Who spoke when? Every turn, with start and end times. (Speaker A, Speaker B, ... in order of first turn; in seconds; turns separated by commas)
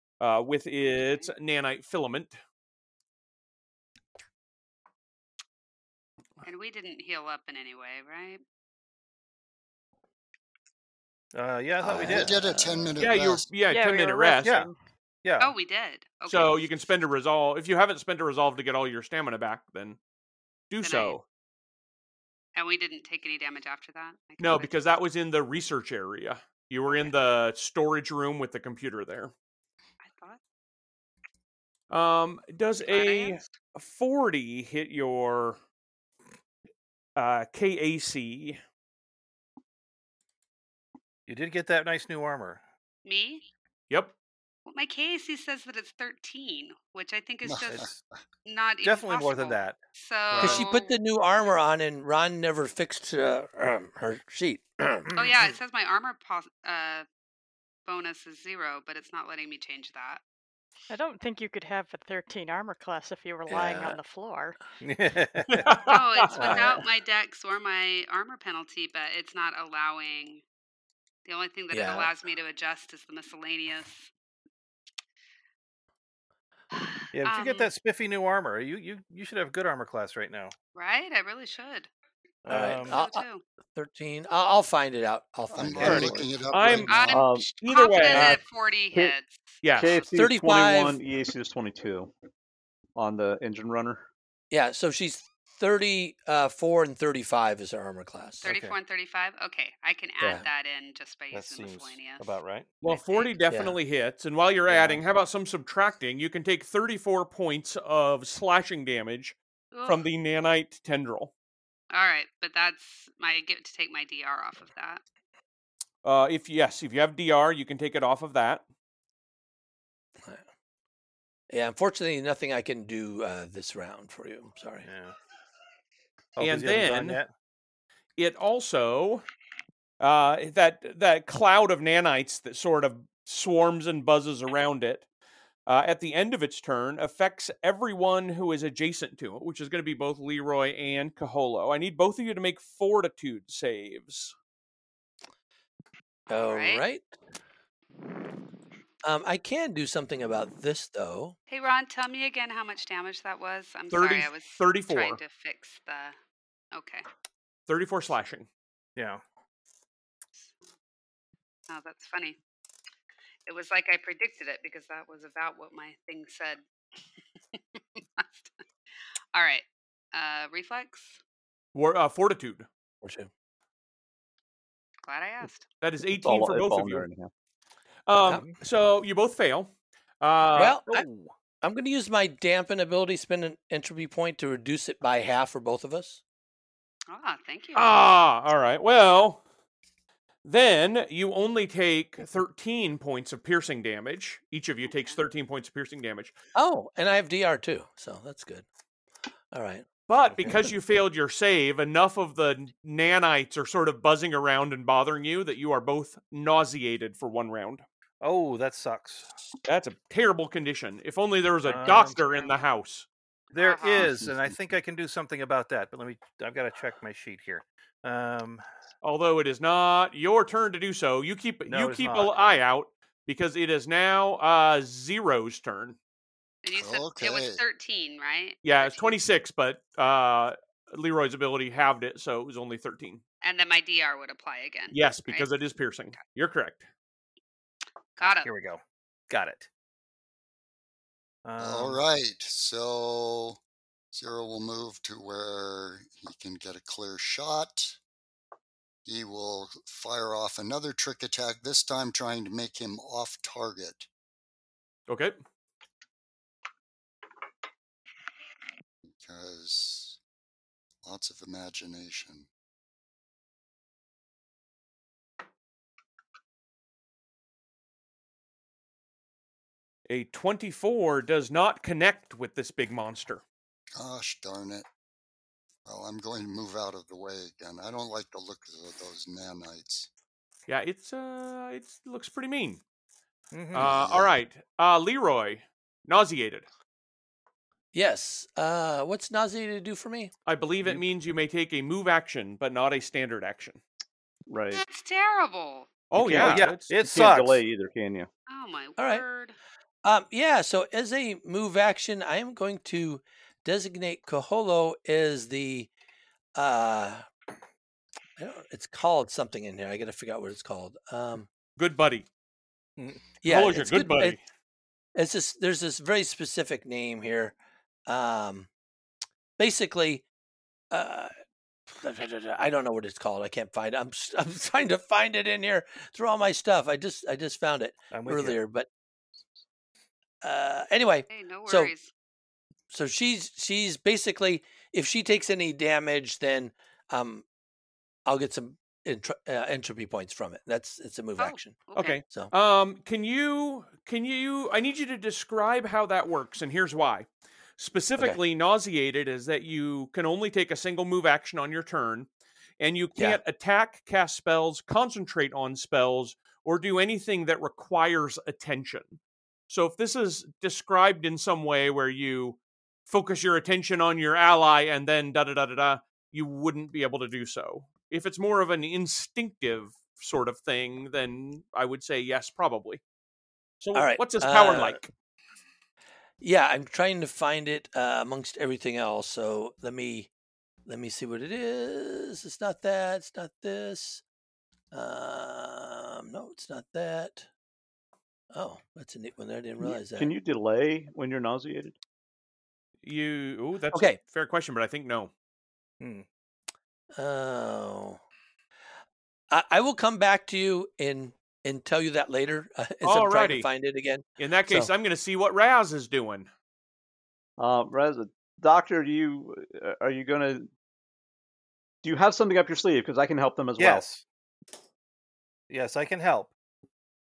Speaker A: 0.2-2.4, Speaker B: 1.0-1.3, Speaker B: 6.4-8.4, Speaker C: 11.3-12.3, Speaker D: 11.8-13.0, Speaker E: 11.9-13.5, Speaker A: 13.0-14.6, Speaker F: 13.7-14.8, Speaker C: 14.4-14.7, Speaker C: 15.2-15.5, Speaker B: 15.4-16.7, Speaker A: 16.3-20.0, Speaker A: 20.7-21.2, Speaker B: 20.8-21.2, Speaker B: 22.6-24.8, Speaker A: 24.4-29.3, Speaker B: 30.0-30.4, Speaker A: 31.9-35.6, Speaker B: 32.9-33.5, Speaker A: 37.2-38.6, Speaker C: 41.3-42.6, Speaker B: 43.0-43.4, Speaker B: 44.7-47.9, Speaker E: 47.5-48.0, Speaker C: 47.7-48.0, Speaker B: 48.5-51.0, Speaker C: 48.8-49.8, Speaker C: 50.3-50.6, Speaker D: 50.4-55.1, Speaker C: 55.1-55.4, Speaker B: 55.1-57.1, Speaker B: 57.9-60.2, Speaker F: 60.9-64.6, Speaker D: 63.5-64.0, Speaker C: 64.8-65.8, Speaker A: 65.5-66.3, Speaker B: 65.9-70.4, Speaker C: 66.3-66.8, Speaker D: 66.4-66.8, Speaker B: 71.3-74.1, Speaker D: 71.7-72.1, Speaker B: 76.7-77.7, Speaker C: 77.1-80.5, Speaker B: 80.7-81.9, Speaker C: 82.5-83.0, Speaker D: 82.5-86.3, Speaker B: 82.5-83.4, Speaker E: 85.5-87.2, Speaker A: 85.8-88.4, Speaker B: 86.9-90.0, Speaker G: 87.1-87.5, Speaker G: 88.1-88.4, Speaker A: 89.6-90.0, Speaker G: 89.8-92.1, Speaker D: 90.2-91.0, Speaker G: 93.0-94.0, Speaker D: 94.5-98.5, Speaker C: 98.4-98.8, Speaker B: 98.4-102.3, Speaker D: 100.2-100.5, Speaker C: 101.3-102.7, Speaker A: 102.8-111.3, Speaker B: 102.8-103.3, Speaker D: 103.5-103.8, Speaker D: 104.7-105.0, Speaker B: 109.7-110.0, Speaker B: 111.9-115.0, Speaker A: 116.0-118.6, Speaker D: 121.5-124.9, Speaker C: 124.8-125.1, Speaker C: 126.4-127.3, Speaker A: 126.4-127.2, Speaker A: 128.2-129.3, Speaker A: 130.0-135.1, Speaker A: 135.7-144.3, Speaker D: 146.3-147.1, Speaker B: 146.3-146.8, Speaker D: 149.0-151.4, Speaker B: 151.5-156.2, Speaker A: 153.9-155.2, Speaker B: 156.7-157.1, Speaker A: 157.7-158.5, Speaker C: 159.0-159.2, Speaker B: 161.7-162.4, Speaker B: 163.5-166.6, Speaker B: 167.5-168.5, Speaker B: 169.3-171.2, Speaker A: 171.8-172.7, Speaker D: 173.0-173.3, Speaker B: 175.1-175.7, Speaker A: 175.8-177.1, Speaker G: 176.2-177.3, Speaker A: 178.1-180.8, Speaker D: 180.6-181.1, Speaker C: 180.8-181.3, Speaker D: 181.6-186.2, Speaker B: 187.1-188.0, Speaker A: 187.8-189.4, Speaker A: 190.4-196.3, Speaker B: 194.9-195.2, Speaker D: 196.6-198.7, Speaker D: 199.5-200.7, Speaker A: 200.1-207.8, Speaker C: 208.2-209.3, Speaker A: 209.7-213.1, Speaker C: 211.7-212.2, Speaker C: 213.5-218.6, Speaker B: 213.6-214.2, Speaker A: 219.0-226.0, Speaker C: 221.7-222.4, Speaker B: 226.6-229.2, Speaker E: 226.7-227.6, Speaker A: 228.6-233.2, Speaker B: 233.4-235.5, Speaker A: 234.9-236.9, Speaker B: 238.2-238.5, Speaker C: 238.2-239.7, Speaker C: 241.4-242.0, Speaker E: 241.6-243.6, Speaker E: 244.1-248.0, Speaker E: 249.1-254.1, Speaker A: 255.1-255.4, Speaker E: 259.1-260.2, Speaker E: 261.0-262.5, Speaker A: 270.1-273.4, Speaker E: 273.9-274.9, Speaker E: 275.9-280.1, Speaker A: 280.7-282.8, Speaker C: 283.5-284.1, Speaker A: 283.7-286.6, Speaker E: 283.8-284.2, Speaker D: 287.9-290.3, Speaker A: 290.5-293.8, Speaker G: 294.5-294.8, Speaker B: 294.9-295.9, Speaker A: 296.1-296.9, Speaker G: 296.2-298.3, Speaker C: 296.3-297.6, Speaker B: 298.5-299.6, Speaker D: 299.0-299.2, Speaker D: 300.0-305.9, Speaker D: 306.6-307.3, Speaker D: 308.4-311.5, Speaker A: 311.8-312.3, Speaker C: 313.0-313.2, Speaker D: 313.4-314.4, Speaker A: 313.4-314.4, Speaker D: 315.1-317.6, Speaker D: 318.1-318.7, Speaker D: 319.6-320.2, Speaker D: 320.9-321.3, Speaker D: 321.9-328.9, Speaker C: 328.1-328.6, Speaker D: 330.4-331.9, Speaker B: 331.3-332.1, Speaker D: 332.9-337.4, Speaker D: 338.3-342.5, Speaker B: 341.4-342.2, Speaker A: 341.9-352.3, Speaker A: 352.8-373.0, Speaker A: 373.8-375.1, Speaker D: 373.9-375.0, Speaker D: 376.4-380.3, Speaker D: 380.9-384.2, Speaker D: 384.9-387.5, Speaker D: 388.5-390.3, Speaker G: 389.8-392.0, Speaker A: 393.0-395.3, Speaker D: 393.9-394.2, Speaker C: 396.0-396.3, Speaker D: 397.1-398.2, Speaker D: 399.5-404.9, Speaker A: 403.0-403.7, Speaker A: 404.4-406.5, Speaker G: 407.6-410.7, Speaker G: 412.0-414.1, Speaker C: 413.8-414.2, Speaker C: 415.7-416.5